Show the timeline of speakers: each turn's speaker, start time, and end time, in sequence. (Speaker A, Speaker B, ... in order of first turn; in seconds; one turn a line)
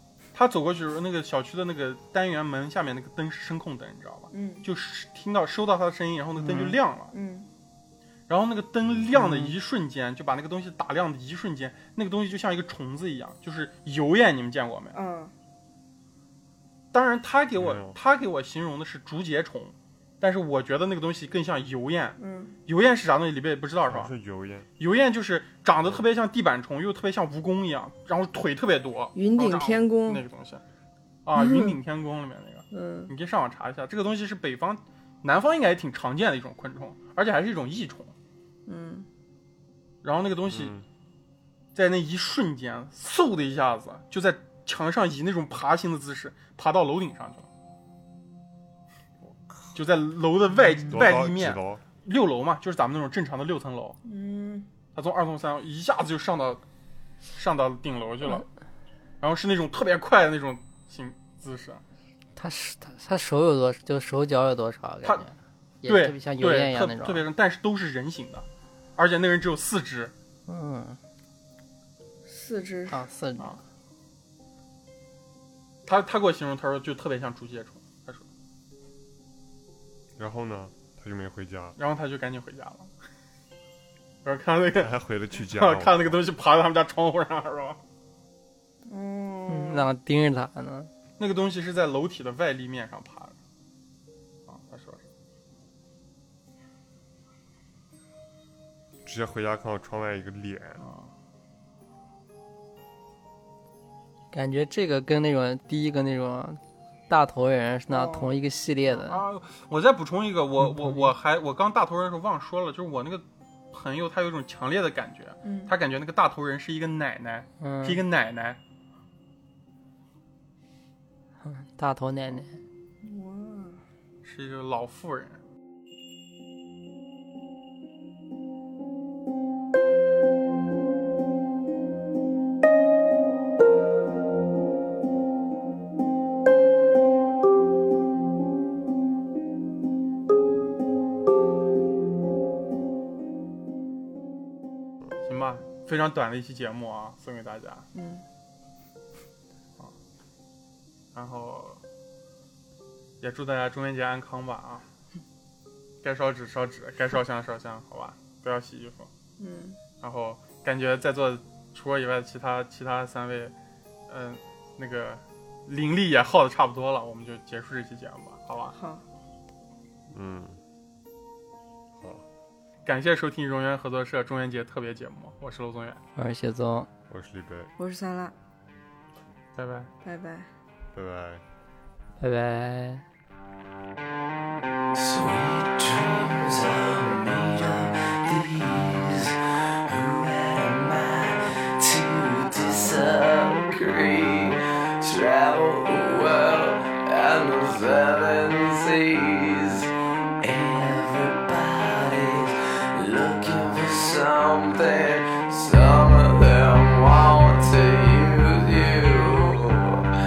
Speaker A: 0.3-7.1
Speaker B: 4.3-4.7
Speaker C: 6.4-6.8
Speaker B: 7.1-7.5
Speaker A: 8.3-15.0
Speaker D: 8.8-9.1
Speaker C: 9.1-9.5
Speaker B: 14.9-15.3
Speaker A: 16.9-24.1
Speaker D: 17.6-18.0
Speaker B: 22.2-22.6
Speaker D: 23.9-24.7
Speaker A: 24.8-30.6
Speaker B: 29.1-30.2
Speaker A: 31.2-38.1
Speaker B: 31.3-31.8
Speaker B: 32.7-33.1
Speaker B: 38.6-39.1
Speaker A: 40.0-40.8
Speaker D: 40.5-40.8
Speaker A: 41.7-47.5
Speaker A: 49.7-54.0
Speaker D: 50.9-51.8
Speaker B: 54.0-54.7
Speaker A: 54.9-56.6
Speaker A: 57.3-58.5
Speaker A: 59.2-61.8
Speaker C: 62.4-67.2
Speaker A: 65.8-70.1
Speaker C: 70.5-71.0
Speaker B: 72.2-73.0
Speaker C: 72.9-73.5
Speaker A: 75.8-78.2
Speaker D: 80.2-81.8
Speaker A: 81.8-82.9
Speaker A: 84.2-87.8
Speaker D: 84.7-86.2
Speaker B: 88.8-89.9
Speaker C: 89.5-90.9
Speaker A: 91.2-93.3
Speaker A: 94.5-95.0
Speaker D: 99.0-100.8
Speaker A: 100.8-101.1
Speaker C: 104.3-109.2
Speaker B: 107.9-108.3
Speaker A: 108.9-118.6
Speaker C: 110.7-111.1
Speaker B: 115.4-115.7
Speaker C: 117.6-118.0
Speaker C: 121.4-122.6
Speaker B: 123.0-123.8
Speaker A: 124.2-125.4
Speaker A: 145.2-147.9
Speaker B: 147.9-148.2
Speaker A: 151.1-151.8
Speaker A: 153.2-154.8
Speaker A: 156.0-159.1
Speaker B: 159.4-159.8
Speaker A: 160.0-163.5
Speaker A: 164.1-168.8
Speaker B: 168.7-169.0
Speaker D: 170.1-170.6
Speaker D: 172.0-172.2
Speaker A: 172.8-176.0
Speaker C: 176.2-176.9
Speaker D: 177.1-177.7
Speaker B: 177.8-178.3
Speaker A: 179.6-179.9
Speaker B: 180.0-180.5
Speaker D: 180.9-181.4
Speaker C: 182.2-183.0
Speaker E: 184.9-199.9
Speaker E: 200.4-210.0